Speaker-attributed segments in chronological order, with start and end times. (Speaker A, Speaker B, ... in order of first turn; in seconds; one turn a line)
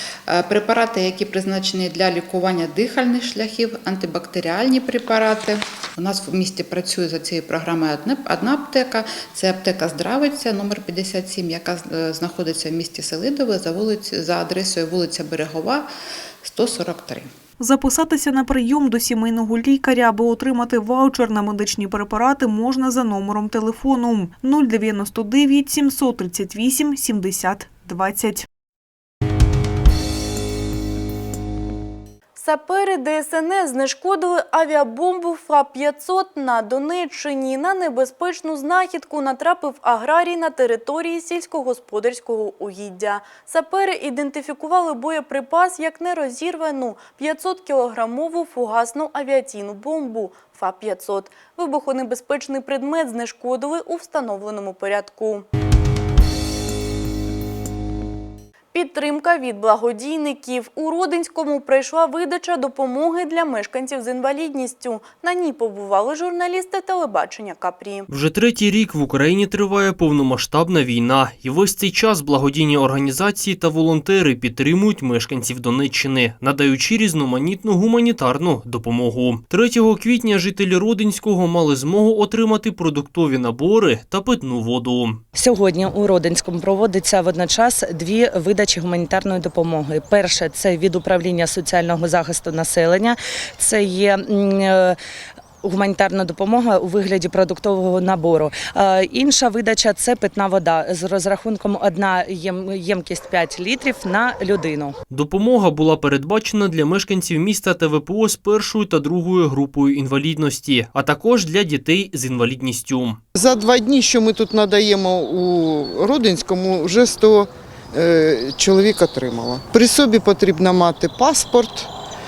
Speaker A: 0.3-15.9
Speaker A: 16.4-17.3
Speaker B: 17.6-28.5
Speaker C: 32.4-55.5
Speaker C: 58.7-68.1
Speaker D: 68.1-85.2
Speaker E: 85.3-95.0
Speaker E: 95.6-104.9
Speaker D: 105.1-113.2
Speaker F: 113.4-121.9